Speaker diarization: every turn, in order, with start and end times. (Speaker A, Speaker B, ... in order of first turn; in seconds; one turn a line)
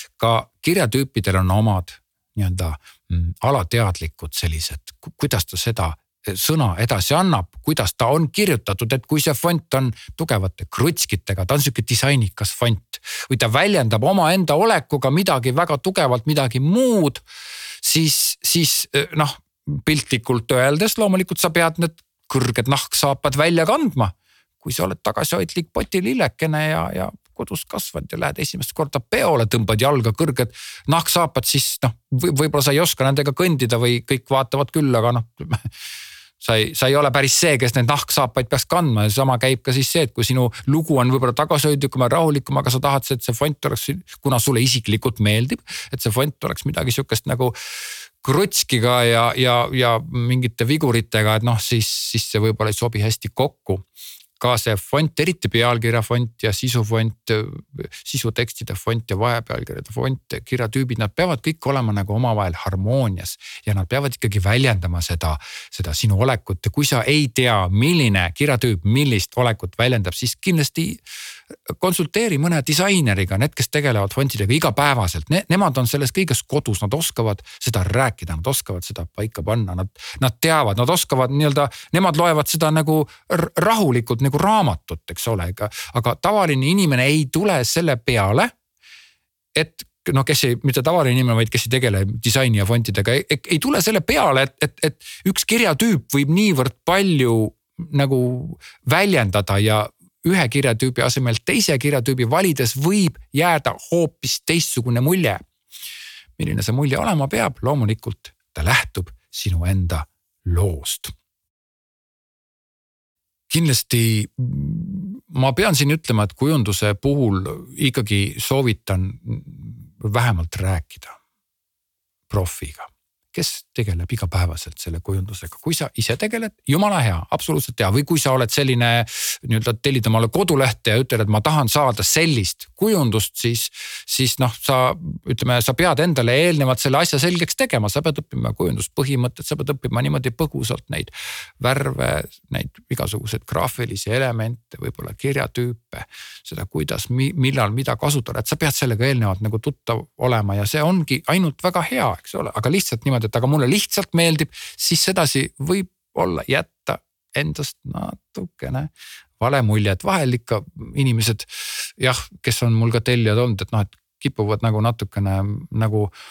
Speaker A: 0.2-17.2
Speaker A: 17.8-35.6
Speaker A: 36.4-47.5
Speaker A: 48.2-53.9
Speaker A: 54.4-71.0
Speaker A: 71.7-88.5
Speaker A: 89.5-105.4
Speaker A: 106.4-111.1
Speaker A: 113.5-121.2
Speaker A: 122.3-166.1